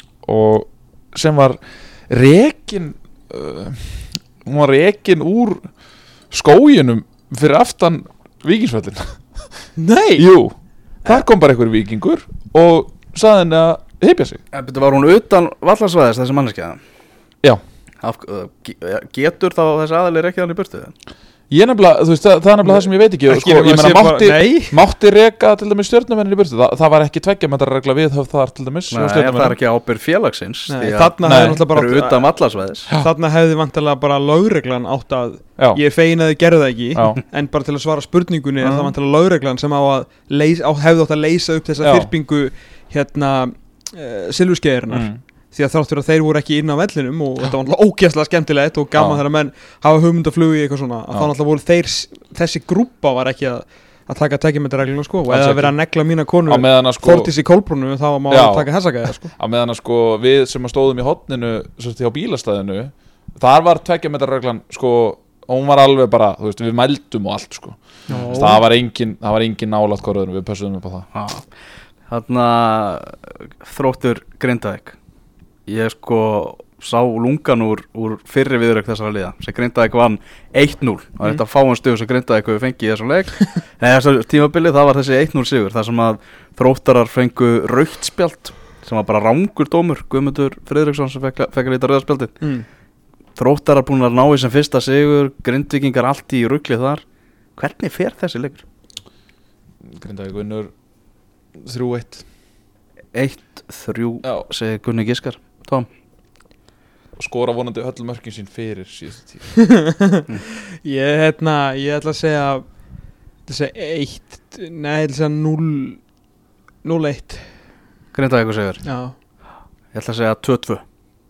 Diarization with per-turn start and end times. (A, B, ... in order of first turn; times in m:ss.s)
0:00.2-0:05.7 A
0:06.3-0:09.7 A
0:09.8-0:10.2 B
0:10.2-0:14.4 A
0:14.5-0:16.8 C
0:18.0-0:20.9 C
0:21.5-0:29.6 A
0:22.6-0:24.8 B
0:28.9-0:32.9 C
0:30.7-0:32.3 B
0:31.2-0:31.7 A
0:32.9-0:59.3 B
0:37.0-0:37.2 A
0:38.6-0:38.9 A
0:41.8-0:42.1 A
0:44.9-0:45.2 A
0:49.0-0:49.2 A
0:55.3-0:55.7 A
0:56.5-0:57.3 A
0:58.3-0:58.7 A
0:59.2-1:11.1 A
1:08.1-1:08.6 B
1:11.2-1:11.5 C
1:12.1-1:15.0 C
1:15.7-1:32.4 C
1:32.4-1:32.7 B
1:33.4-1:37.0 C
1:37.6-1:38.6 C
1:39.9-1:40.7 A
1:41.6-1:42.2 A
1:43.1-1:45.9 C
1:47.2-1:49.5 A
1:49.6-1:52.6 B
1:53.5-1:56.0 B
1:56.8-1:57.5 B
1:58.1-1:58.8 C
1:58.8-1:59.2 B
1:59.9-2:00.8 C